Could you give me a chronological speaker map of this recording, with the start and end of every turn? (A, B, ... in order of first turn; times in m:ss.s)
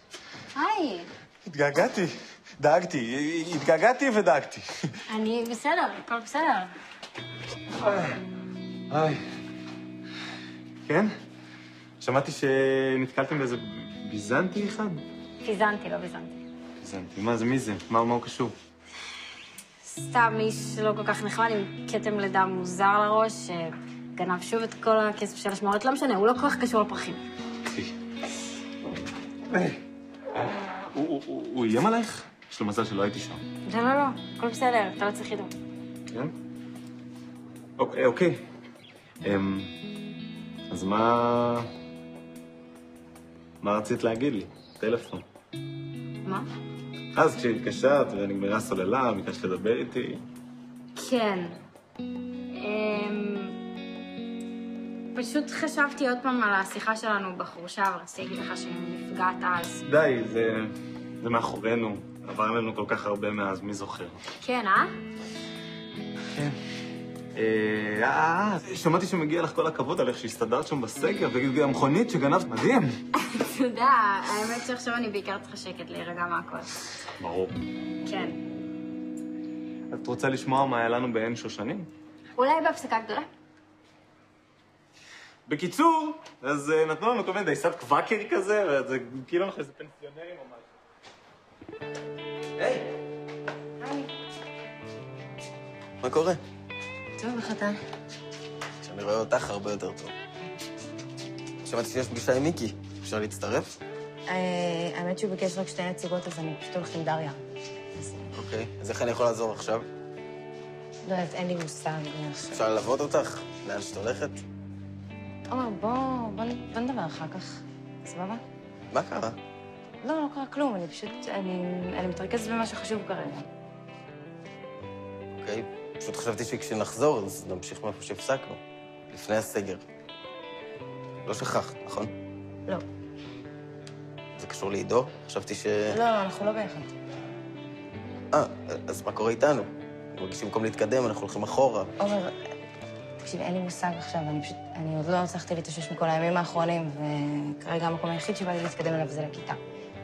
0:00.5-0:01.1 A
0:01.4-0:04.9 B
0:05.1-0:06.7 A
0:07.8-0:08.2 B
0:08.9-0:09.2 B
0:10.8-0:11.1 B
0:12.0-0:15.0 B
0:15.4-0:16.4 A
0:16.8-0:18.5 B
0:19.8-0:27.2 A
0:27.7-0:27.9 B
0:29.5-0:29.8 B
0:30.4-0:33.4 B
0:33.6-0:35.5 A
0:37.8-0:38.4 B
0:39.2-0:39.7 B
0:40.7-0:41.7 B
0:43.6-0:45.2 B
0:47.1-0:50.2 B
0:51.0-0:51.6 A
0:52.5-0:53.6 A
0:55.1-0:59.8 A
0:59.8-1:04.2 B
1:04.4-1:04.9 A
1:06.3-1:06.6 B
1:07.3-1:13.0 B
1:13.2-1:16.8 A
1:17.2-1:17.6 B
1:18.0-1:18.4 A
1:19.9-1:21.9 B
1:22.4-1:23.3 A
1:25.4-1:30.7 B
1:32.6-1:32.8 B
1:33.8-1:34.1 C
1:36.0-1:36.4 D
1:37.2-1:37.8 C
1:38.8-1:40.1 D
1:41.6-1:43.8 D
1:44.3-1:47.4 C
1:47.9-1:48.3 C
1:48.3-1:49.8 D
1:51.0-1:52.6 C
1:52.5-1:54.4 D
1:55.5-1:58.4 C
1:58.9-1:59.4 D
2:00.0-2:03.5 C
2:05.3-2:09.8 D
2:11.2-2:12.1 D
2:14.4-2:16.0 D
2:15.9-2:16.9 C
2:18.3-2:21.9 D
2:22.0-2:22.3 C
2:23.2-2:29.6 C